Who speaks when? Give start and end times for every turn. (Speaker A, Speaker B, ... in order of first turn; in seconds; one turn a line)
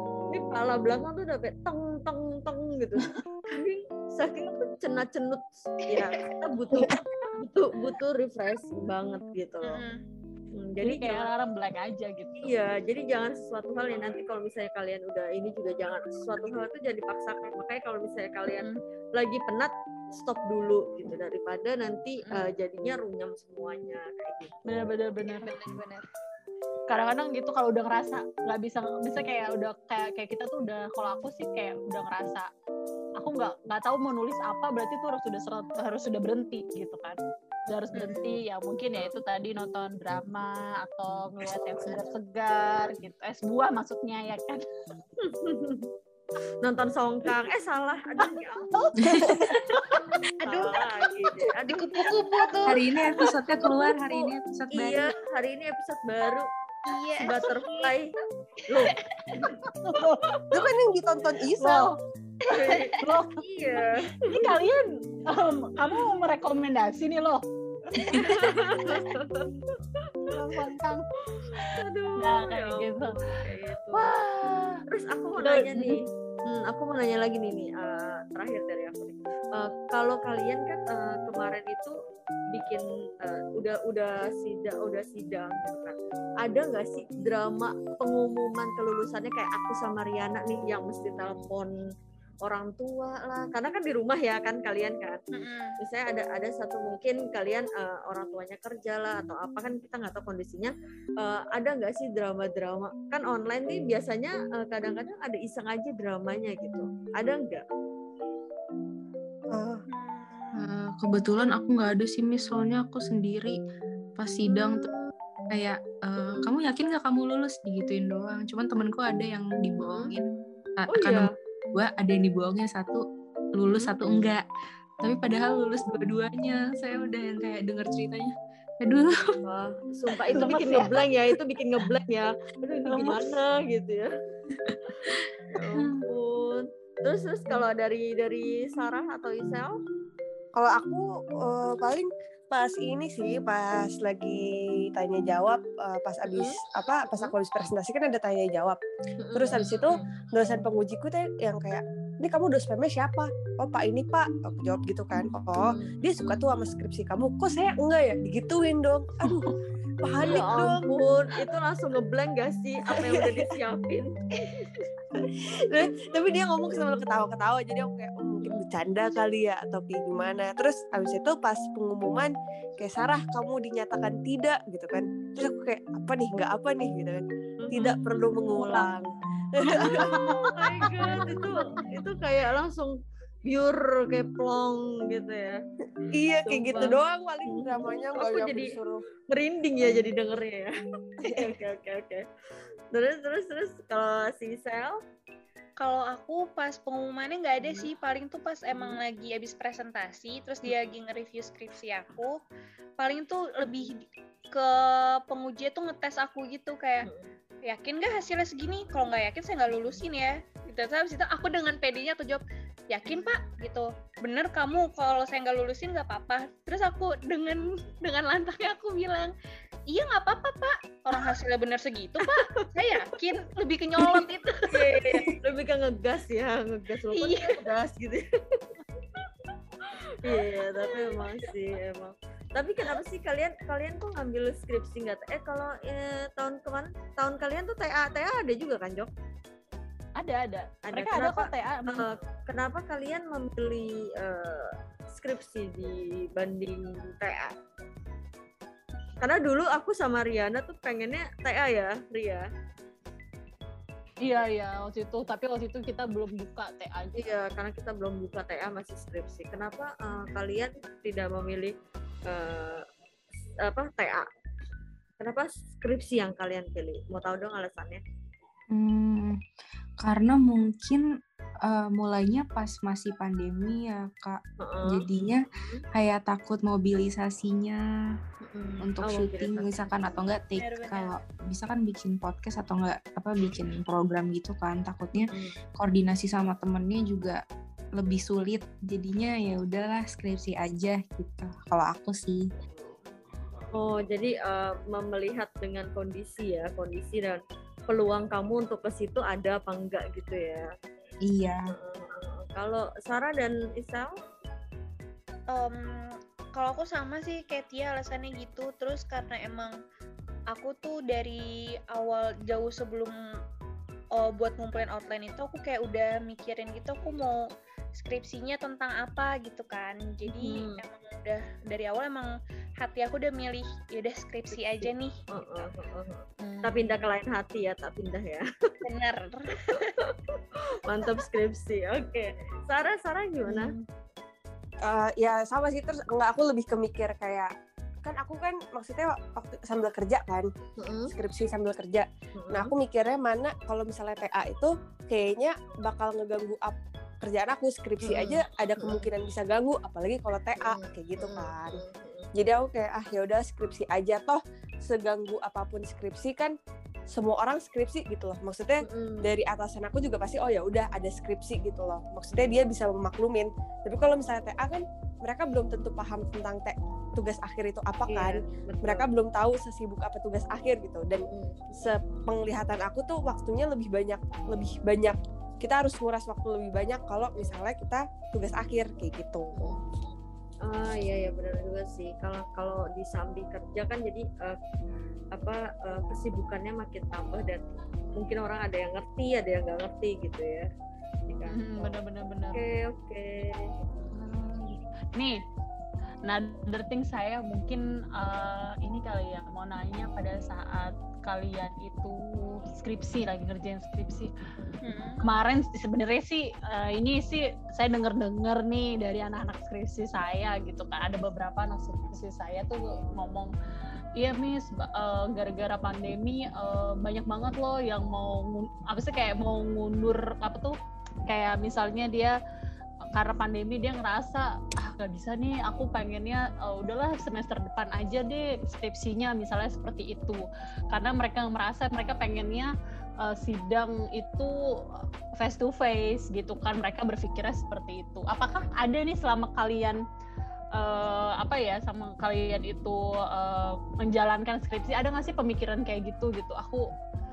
Speaker A: 0.3-9.8
Speaker B: 5.9-6.2
Speaker B: 9.6-10.0
Speaker A: 10.5-11.3
Speaker C: 10.8-12.5
Speaker A: 12.4-24.5
Speaker C: 24.6-25.5
Speaker B: 25.2-26.1
Speaker C: 26.9-32.5
Speaker C: 33.2-44.6
Speaker A: 37.9-38.4
Speaker A: 45.2-45.9
Speaker A: 46.6-48.7
Speaker C: 48.2-50.1
Speaker D: 49.0-49.5
Speaker B: 50.4-53.3
Speaker A: 50.4-52.1
Speaker D: 52.6-55.1
Speaker A: 53.6-56.5
Speaker B: 56.9-58.0
Speaker A: 57.2-58.1
Speaker B: 58.7-59.4
Speaker A: 58.7-59.6
Speaker C: 59.7-60.4
Speaker E: 60.5-61.9
Speaker C: 61.6-61.9
Speaker B: 62.4-63.0
Speaker A: 62.5-64.6
Speaker C: 63.0-68.9
Speaker A: 68.1-70.3
Speaker C: 70.3-73.2
Speaker A: 71.6-74.1
Speaker C: 73.9-74.8
Speaker A: 74.9-81.9
Speaker C: 75.3-76.0
Speaker A: 82.5-91.8
Speaker A: 92.4-95.2
Speaker B: 95.3-95.8
Speaker A: 95.8-107.6
Speaker E: 109.5-109.8
Speaker B: 109.9-110.6
Speaker D: 110.5-113.6
Speaker D: 114.2-114.9
Speaker A: 114.4-115.1
Speaker D: 115.5-120.2
Speaker A: 116.2-116.5
Speaker A: 119.8-120.1
Speaker D: 120.8-124.4
Speaker A: 120.9-121.3
Speaker A: 123.7-124.2
Speaker D: 125.0-129.4
Speaker A: 129.4-134.1
Speaker C: 130.4-131.0
Speaker C: 132.9-133.3
Speaker A: 134.7-139.8
Speaker C: 135.8-136.0
Speaker E: 140.5-148.8
Speaker A: 149.2-150.0
Speaker E: 149.3-159.5
Speaker A: 155.6-155.9
Speaker D: 159.3-159.5
Speaker E: 160.0-160.8
Speaker A: 160.2-164.7
Speaker E: 165.7-180.3
Speaker C: 178.4-178.8
Speaker A: 179.7-185.6
Speaker C: 179.8-180.5
Speaker E: 186.1-189.0
Speaker A: 186.5-188.8
Speaker A: 189.3-192.2
Speaker A: 192.9-195.0
Speaker B: 195.8-202.4
Speaker A: 198.7-199.0
Speaker B: 203.0-207.1
Speaker B: 207.6-219.3
Speaker B: 219.9-225.2
Speaker A: 224.7-228.7
Speaker B: 227.1-227.6
Speaker A: 230.2-239.1
Speaker B: 230.9-231.2
Speaker C: 240.2-242.1
Speaker A: 240.9-247.5
Speaker A: 249.2-252.5
Speaker C: 254.2-257.2
Speaker A: 257.1-261.7
Speaker A: 262.3-262.9
Speaker A: 263.6-264.3
Speaker A: 265.2-268.0
Speaker D: 268.7-269.4
Speaker D: 270.0-271.1
Speaker D: 271.6-277.8
Speaker A: 274.6-275.8
Speaker A: 278.4-279.9
Speaker D: 278.8-287.4
Speaker B: 280.6-281.2
Speaker A: 285.1-285.5
Speaker D: 287.9-292.5
Speaker A: 293.7-300.7
Speaker D: 301.2-301.7
Speaker A: 301.7-304.1
Speaker B: 305.5-309.8
Speaker B: 310.5-313.1
Speaker B: 314.1-317.4
Speaker B: 317.9-325.7
Speaker A: 320.3-320.8
Speaker A: 324.8-328.7
Speaker C: 326.4-327.0
Speaker B: 328.8-329.9
Speaker A: 329.7-333.7
Speaker C: 333.5-333.8
Speaker E: 334.8-337.5
Speaker E: 338.0-340.5
Speaker A: 340.8-341.1
Speaker E: 341.1-351.8
Speaker A: 342.4-342.7
Speaker A: 348.0-349.1
Speaker A: 350.6-352.3
Speaker E: 352.4-356.5
Speaker E: 357.1-371.3
Speaker A: 358.8-359.3
Speaker A: 368.1-369.1
Speaker A: 371.3-371.9
Speaker E: 371.8-379.8
Speaker A: 379.5-384.6
Speaker A: 385.3-390.7
Speaker A: 391.3-392.0
Speaker C: 391.5-392.6
Speaker A: 392.5-393.7
Speaker C: 394.1-395.4
Speaker C: 396.2-404.3
Speaker B: 404.8-405.3
Speaker C: 405.2-413.5
Speaker C: 414.1-420.7
Speaker C: 421.3-422.4
Speaker C: 423.1-440.0
Speaker C: 440.8-446.9